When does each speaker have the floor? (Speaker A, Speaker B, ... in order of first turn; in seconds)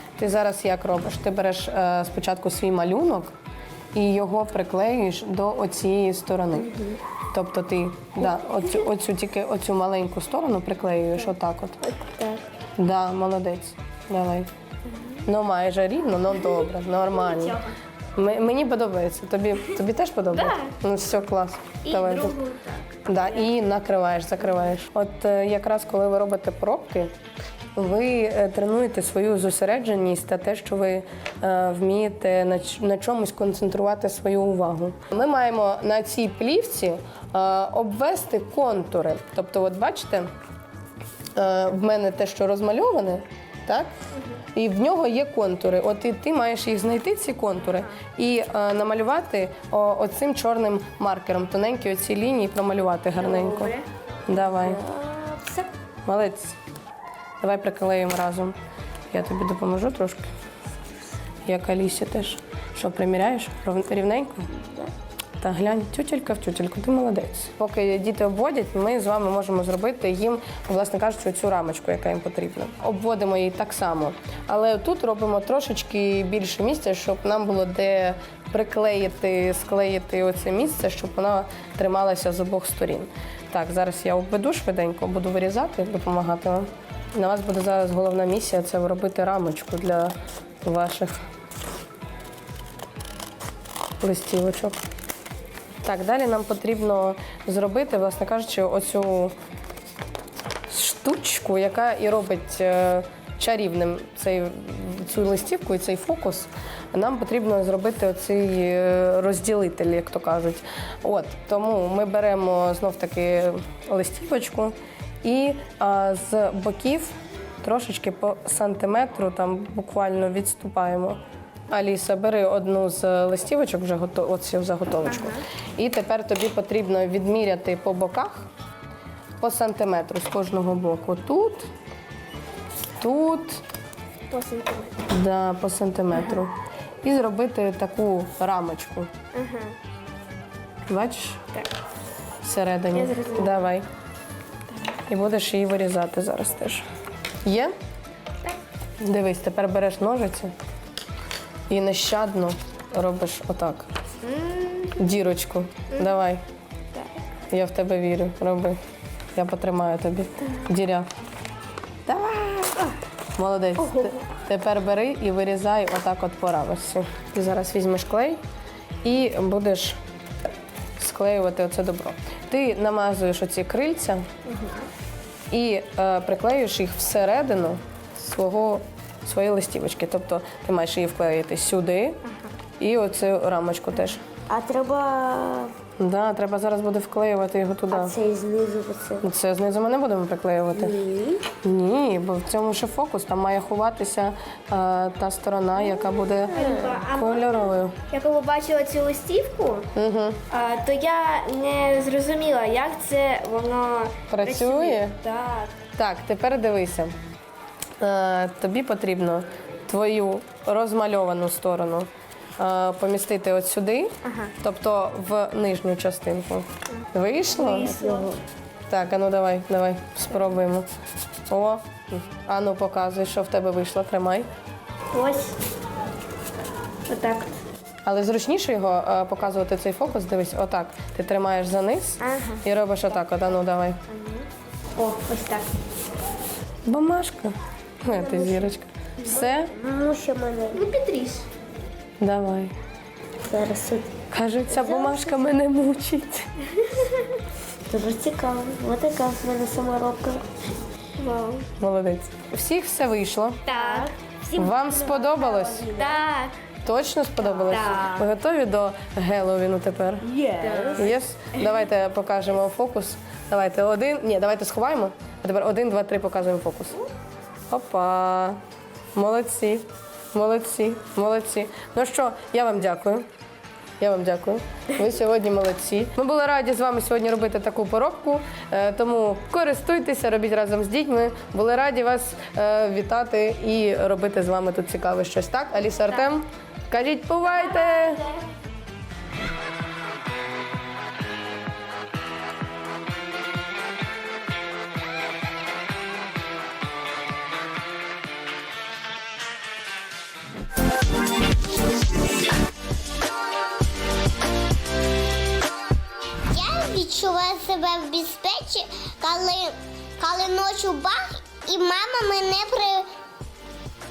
Speaker A: 0.2-3.3, 3.9-6.7, 7.3-11.9, 12.8-14.5, 15.2-17.6, 18.1-22.4, 23.1-27.1, 27.8-40.3, 41.4-43.9, 44.5-53.7, 54.3-54.8, 56.0-56.5, 57.4-58.5, 59.1-60.3, 61.5-64.5, 65.4-91.2, 94.0-94.8, 95.8-99.3, 100.7-121.2, 121.7-128.5, 129.4-131.7, 133.0-133.6, 135.1-136.5, 137.0-139.1, 140.9-141.4, 142.4-143.8, 145.1-146.8, 147.4-147.7, 149.0-150.5, 151.7-153.9, 155.0-156.4, 157.5-158.8, 159.3-161.1, 162.1-162.7, 163.4-168.4, 169.0-170.0, 171.0-174.3, 175.5-182.2, 182.8-184.2, 186.0-188.1, 189.2-190.9, 191.6-197.9, 199.9-200.4, 204.3-205.2, 206.0-207.1, 208.0-212.1, 212.6-218.2, 218.9-220.9, 221.5-224.5, 228.1-234.0, 236.8-239.7, 242.2-242.7, 244.3-246.5, 251.8-253.7, 254.5-256.0, 256.8-260.3, 260.9-267.0, 267.7-268.6, 269.1-273.2, 274.0-288.2
Speaker B: 6.6-7.0, 11.8-12.4, 14.9-15.2, 17.1-17.7, 20.4-20.7, 21.8-23.4, 53.1-55.7, 64.5-64.9, 125.1-125.4, 134.3-135.0, 139.3-139.7, 142.9-143.6, 154.2-154.9, 163.8-164.1, 174.4-174.8, 184.5-185.7, 187.9-189.2, 190.8-191.4, 195.8-199.9, 200.5-205.7, 214.2-214.5, 217.5-218.4, 225.1-225.5, 227.1-227.5, 232.2-232.6, 234.1-234.4, 235.0-235.7, 238.1-238.7, 239.2-241.3, 243.4-244.2, 244.7-245.4, 246.9-247.2, 247.9-250.4, 251.2-251.7, 253.7-256.5, 257.6-258.3, 260.2-261.8, 287.7-288.3
Speaker C: 306.5-313.1